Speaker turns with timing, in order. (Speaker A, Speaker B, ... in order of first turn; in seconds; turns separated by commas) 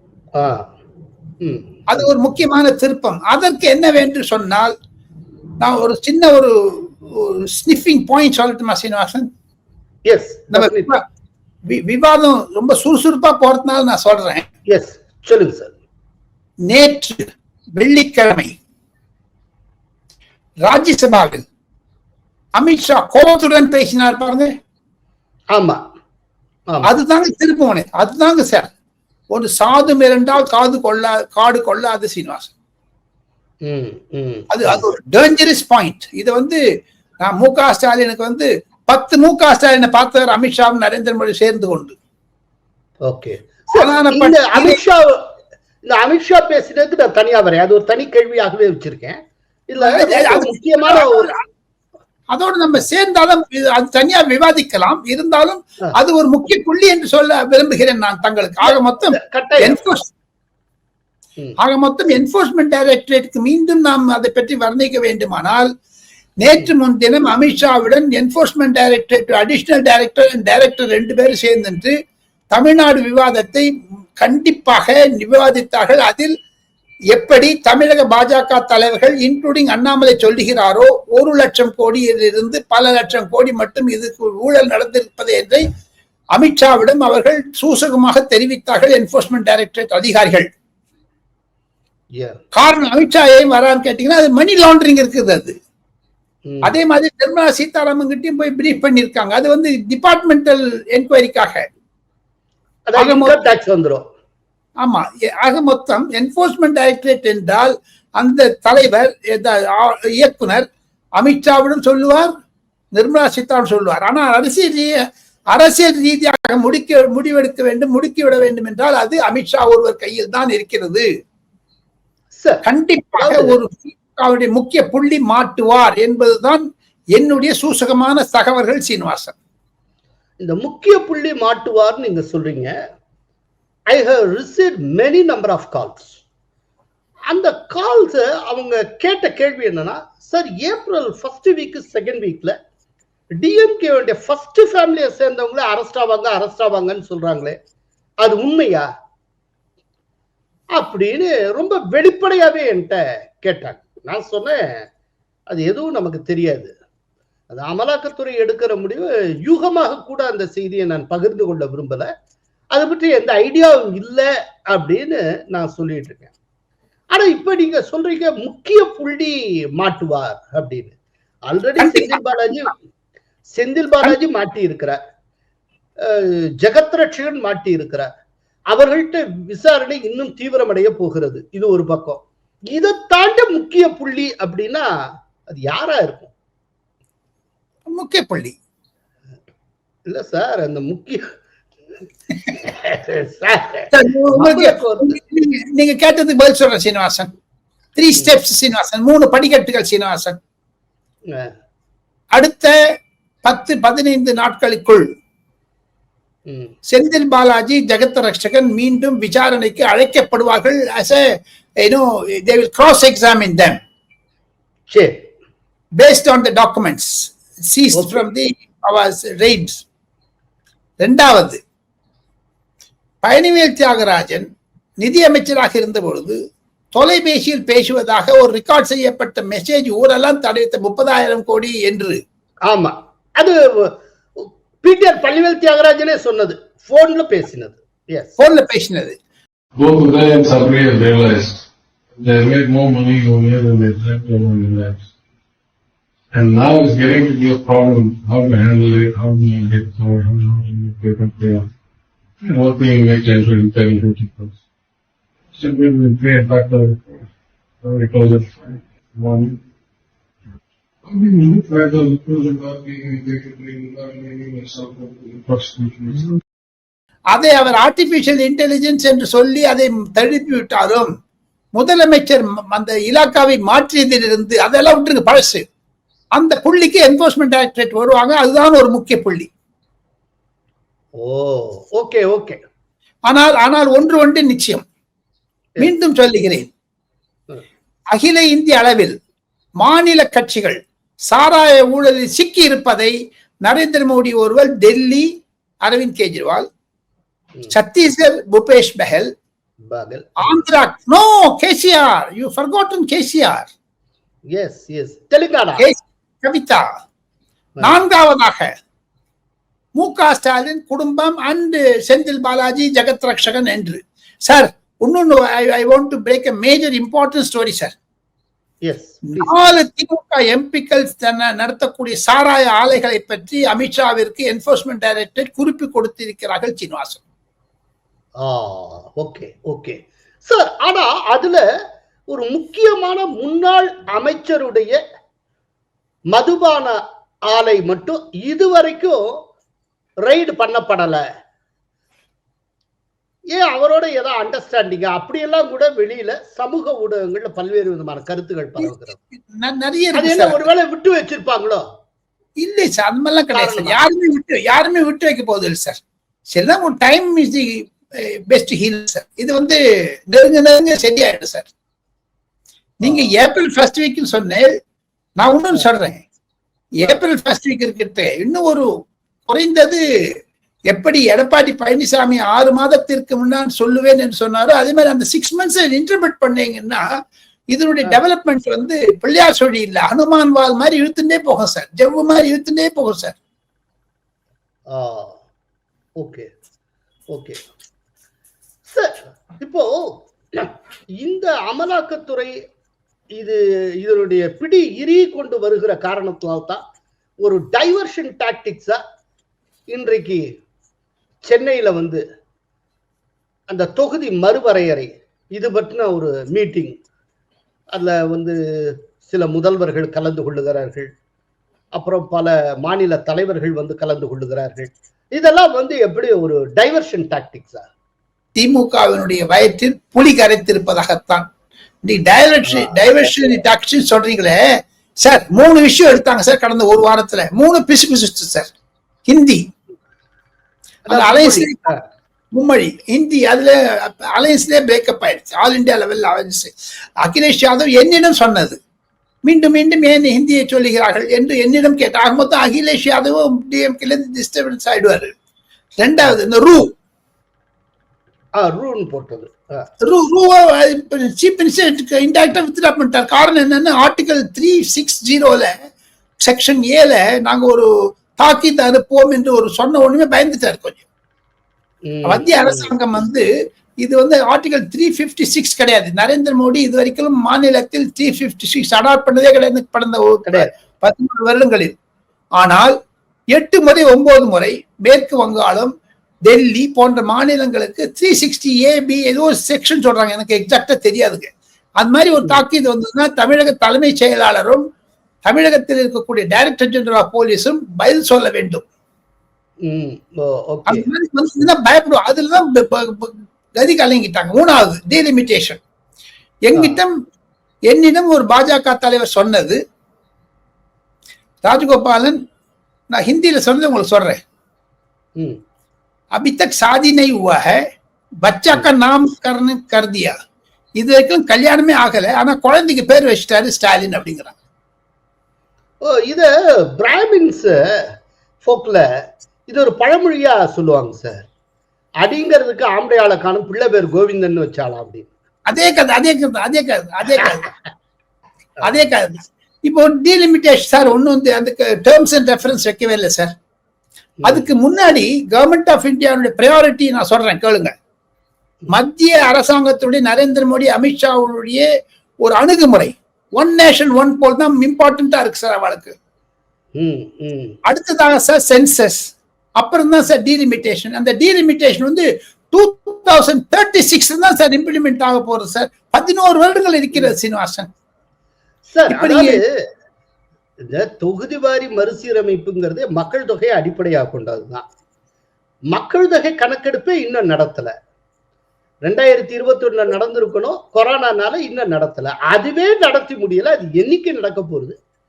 Speaker A: 0.4-0.7, Speaker A: 1.4-2.0, Speaker B: 1.9-4.7, Speaker B: 5.6-9.3, Speaker A: 10.1-11.0, Speaker B: 10.5-11.0, Speaker B: 11.7-14.5, Speaker A: 14.7-15.8, Speaker B: 16.6-18.6, Speaker B: 20.6-21.4, Speaker B: 22.6-24.5, Speaker A: 25.5-25.8, Speaker B: 26.9-28.7, Speaker B: 29.3-32.5, Speaker A: 33.6-34.8, Speaker B: 34.5-36.6, Speaker B: 37.2-42.0, Speaker A: 43.1-45.2, Speaker B: 43.8-44.8, Speaker A: 45.9-51.3, Speaker B: 49.8-51.4, Speaker B: 52.3-60.1, Speaker A: 59.1-59.8, Speaker B: 61.6-65.7, Speaker B: 66.4-72.0, Speaker B: 72.5-73.7, Speaker B: 74.2-76.3, Speaker B: 77.1-85.6, Speaker B: 86.3-90.5, Speaker B: 92.5-95.6, Speaker A: 96.5-96.8, Speaker B: 96.6-101.7, Speaker A: 102.9-104.0, Speaker B: 103.0-103.4, Speaker B: 104.8-110.7, Speaker B: 111.2-112.3, Speaker B: 113.0-121.1, Speaker A: 122.4-122.6, Speaker B: 122.6-129.3, Speaker A: 123.2-123.6, Speaker A: 130.4-132.8, Speaker A: 133.9-136.2, Speaker A: 137.3-142.6, Speaker A: 143.4-147.6, Speaker A: 148.2-148.9, Speaker A: 150.8-154.8, Speaker A: 155.5-156.7, Speaker A: 157.5-162.1, Speaker A: 162.7-166.3, Speaker A: 167.1-170.9, Speaker A: 171.5-172.7, Speaker B: 171.8-172.2, Speaker A: 173.6-175.0, Speaker A: 176.0-178.1, Speaker A: 178.7-184.9, Speaker A: 185.5-186.3, Speaker B: 187.9-188.6, Speaker A: 190.1-191.3, Speaker A: 192.6-195.1, Speaker B: 193.9-197.3, Speaker B: 198.0-200.4, Speaker B: 202.3-202.7, Speaker B: 203.4-205.1, Speaker A: 206.5-206.7, Speaker B: 206.9-213.8, Speaker A: 214.9-215.2, Speaker B: 216.0-219.8, Speaker A: 217.9-218.2, Speaker B: 221.0-221.6, Speaker B: 223.2-224.5, Speaker B: 225.0-226.4, Speaker B: 226.9-232.2, Speaker A: 232.7-238.4, Speaker B: 238.4-239.2, Speaker C: 239.8-241.7, Speaker C: 242.2-245.1, Speaker C: 246.3-251.7, Speaker C: 252.5-254.6, Speaker C: 255.6-257.3, Speaker C: 257.8-259.6, Speaker C: 261.1-266.4, Speaker B: 267.3-271.1, Speaker B: 271.8-275.6, Speaker B: 276.4-279.5, Speaker A: 281.2-282.6, Speaker B: 283.3-284.9, Speaker B: 285.8-286.7, Speaker B: 288.1-289.1, Speaker B: 289.8-295.3, Speaker B: 295.8-296.7, Speaker B: 297.7-299.3, Speaker A: 299.9-300.6, Speaker B: 300.4-303.7, Speaker A: 304.5-305.9, Speaker B: 305.8-306.9, Speaker B: 307.8-308.7, Speaker B: 310.0-318.0, Speaker A: 318.9-319.7, Speaker B: 319.3-327.2, Speaker A: 328.4-331.6, Speaker A: 332.3-335.0, Speaker A: 336.3-337.0, Speaker A: 337.5-339.4, Speaker A: 340.3-341.2, Speaker A: 343.5-349.2, Speaker B: 348.8-350.6, Speaker A: 350.1-351.9, Speaker B: 352.6-361.7, Speaker A: 353.5-354.0, Speaker B: 363.0-364.8, Speaker A: 363.0-363.3, Speaker B: 365.4-366.2, Speaker B: 367.0-368.9, Speaker B: 369.5-370.0, Speaker B: 370.9-377.1, Speaker B: 377.7-383.4, Speaker A: 384.9-385.4, Speaker A: 386.2-386.5, Speaker A: 387.3-387.6, Speaker A: 388.9-392.5, Speaker A: 393.4-396.8, Speaker A: 397.4-399.0, Speaker A: 399.9-400.4, Speaker A: 401.4-402.2, Speaker A: 403.7-407.0, Speaker A: 407.9-411.1, Speaker A: 411.9-417.9, Speaker B: 418.6-421.5, Speaker B: 422.1-424.6, Speaker A: 422.7-423.1, Speaker B: 425.2-428.7, Speaker B: 429.3-429.6, Speaker A: 431.1-432.0, Speaker B: 431.1-431.9, Speaker B: 432.5-438.8, Speaker B: 439.4-445.3, Speaker B: 446.0-446.9, Speaker A: 448.6-449.9, Speaker B: 450.0-455.8, Speaker B: 456.4-461.0, Speaker A: 462.1-462.9, Speaker B: 462.2-463.4, Speaker B: 464.0-471.9, Speaker A: 470.5-470.7, Speaker B: 472.6-472.9, Speaker B: 473.5-475.9, Speaker B: 476.5-484.9, Speaker B: 485.4-488.9, Speaker A: 489.8-491.1, Speaker B: 490.9-495.8, Speaker B: 496.7-497.2, Speaker B: 497.9-499.8, Speaker B: 501.6-502.4, Speaker B: 503.1-504.4, Speaker B: 506.4-507.8, Speaker B: 508.4-510.4, Speaker B: 511.0-514.5, Speaker A: 516.0-518.1, Speaker A: 518.6-519.0, Speaker A: 519.7-521.5, Speaker A: 522.2-525.3, Speaker B: 525.7-527.7, Speaker B: 528.8-533.5, Speaker B: 534.4-537.9, Speaker B: 538.9-541.9, Speaker B: 542.4-546.1, Speaker A: 547.0-547.8, Speaker B: 547.9-557.9, Speaker A: 558.9-559.6, Speaker B: 559.1-559.6, Speaker A: 560.9-564.9, Speaker A: 565.9-567.9, Speaker A: 569.1-575.0